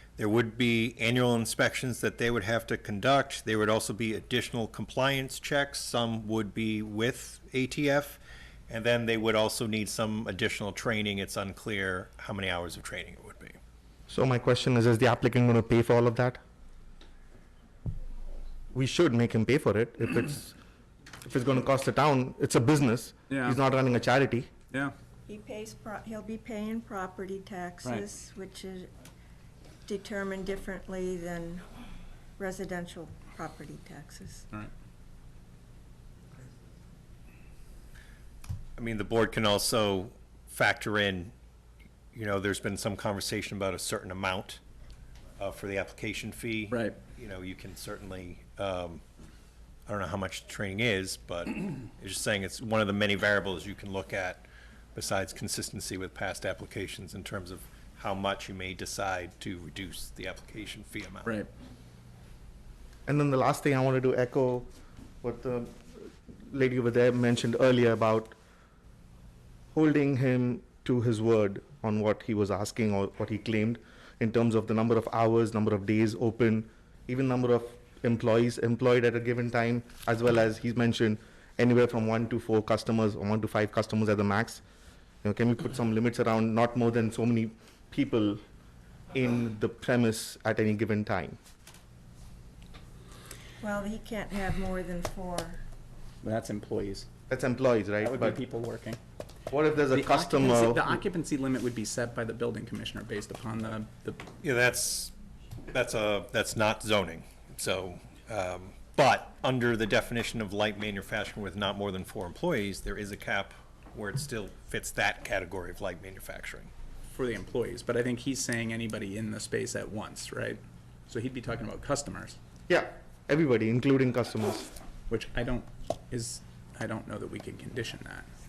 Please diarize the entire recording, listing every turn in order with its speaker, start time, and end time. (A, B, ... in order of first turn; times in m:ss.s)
0:00.2-0:13.6 A
0:14.1-0:16.4 B
0:18.7-0:20.6 B
0:21.2-0:24.5 B
0:23.3-0:23.6 C
0:25.3-0:28.9 D
0:29.8-0:31.6 D
0:32.4-0:34.5 D
0:38.8-0:41.3 A
0:42.1-0:44.6 A
0:45.4-0:49.0 A
0:46.7-0:47.0 C
0:49.9-1:01.4 A
1:03.1-1:04.7 B
1:05.2-1:08.4 B
1:09.7-1:24.6 B
1:25.2-1:28.4 B
1:29.1-1:31.4 B
1:33.6-1:35.6 D
1:36.2-1:37.1 C
1:37.3-1:38.4 B
1:38.0-1:39.0 C
1:39.5-1:41.0 B
1:39.9-1:44.2 C
1:44.4-1:45.1 A
1:45.7-1:56.7 A
1:57.1-2:02.4 C
2:02.7-2:04.7 B
2:05.1-2:08.3 C